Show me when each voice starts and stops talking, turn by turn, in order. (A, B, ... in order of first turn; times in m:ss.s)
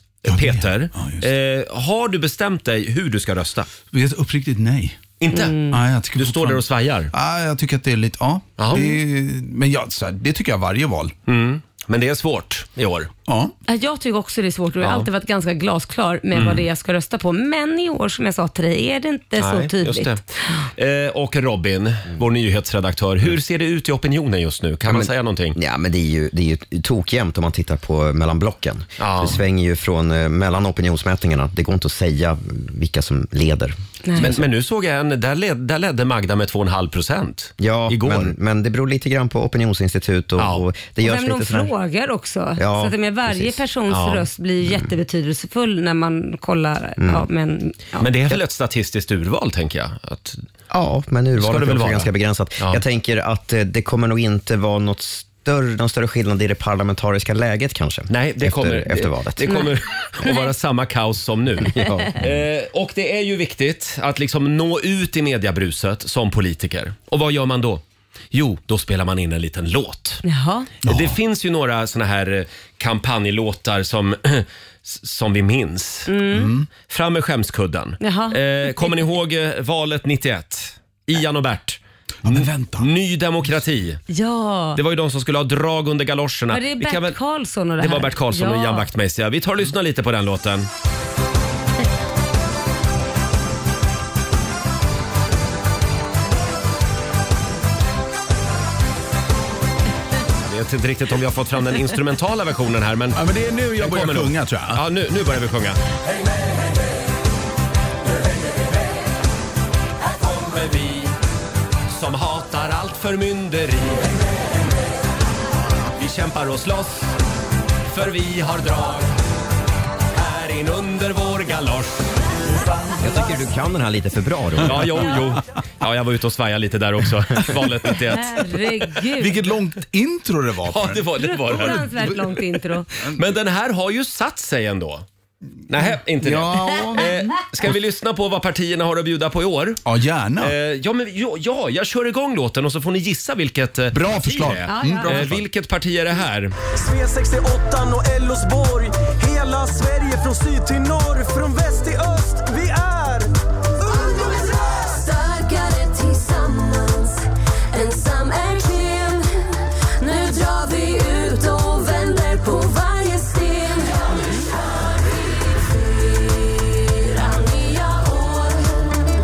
0:00.2-0:03.7 A
0:00.2-0:01.3 B
0:03.9-0:05.0 B
0:05.2-0:05.5 A
0:05.3-0:05.8 C
0:05.7-0:11.1 B
0:06.2-0:07.1 A
0:08.6-0:09.0 A
0:11.3-0:13.1 A
0:13.3-0:13.5 B
0:13.7-0:20.7 C
0:14.8-0:15.1 A
0:16.3-0:16.6 A
0:19.4-0:20.2 A
0:20.8-0:25.6 A
0:24.9-0:34.4 D
0:29.0-0:29.4 A
0:34.2-0:38.3 A
0:37.6-0:41.7 D
0:40.4-0:40.6 A
0:41.0-0:48.1 C
0:42.6-0:43.6 D
0:43.9-0:44.3 A
0:44.6-0:44.9 D
0:47.0-0:47.3 D
0:48.0-0:50.4 A
0:50.7-0:59.5 D
0:51.4-0:52.8 A
0:58.1-1:10.2 A
1:10.2-1:10.7 C
1:10.8-1:11.2 B
1:10.8-1:16.1 A
1:16.1-1:16.5 C
1:16.3-1:16.7 B
1:16.8-1:24.0 A
1:18.0-1:19.0 C
1:22.2-1:22.9 B
1:24.1-1:24.8 C
1:24.7-1:27.2 A
1:26.5-1:28.8 C
1:27.8-1:30.7 A
1:40.4-1:43.2 A
1:43.1-1:44.8 B
1:43.8-1:45.8 A
1:50.1-1:51.1 A
1:51.9-1:54.2 A
1:56.0-1:57.2 A
1:57.8-1:59.2 A
2:00.1-2:02.1 A
2:03.0-2:05.2 D
2:04.6-2:08.6 A
2:08.1-2:09.5 C
2:09.1-2:12.0 B
2:10.6-2:12.3 A
2:11.2-2:12.9 C
2:13.0-2:13.2 B
2:13.1-2:15.0 A
2:15.7-2:19.8 A
2:15.7-2:17.3 B
2:19.8-2:20.5 B
2:20.4-2:26.6 A
2:23.9-2:25.4 B
2:24.7-2:25.2 C
2:26.7-2:33.3 E
2:33.9-2:49.0 F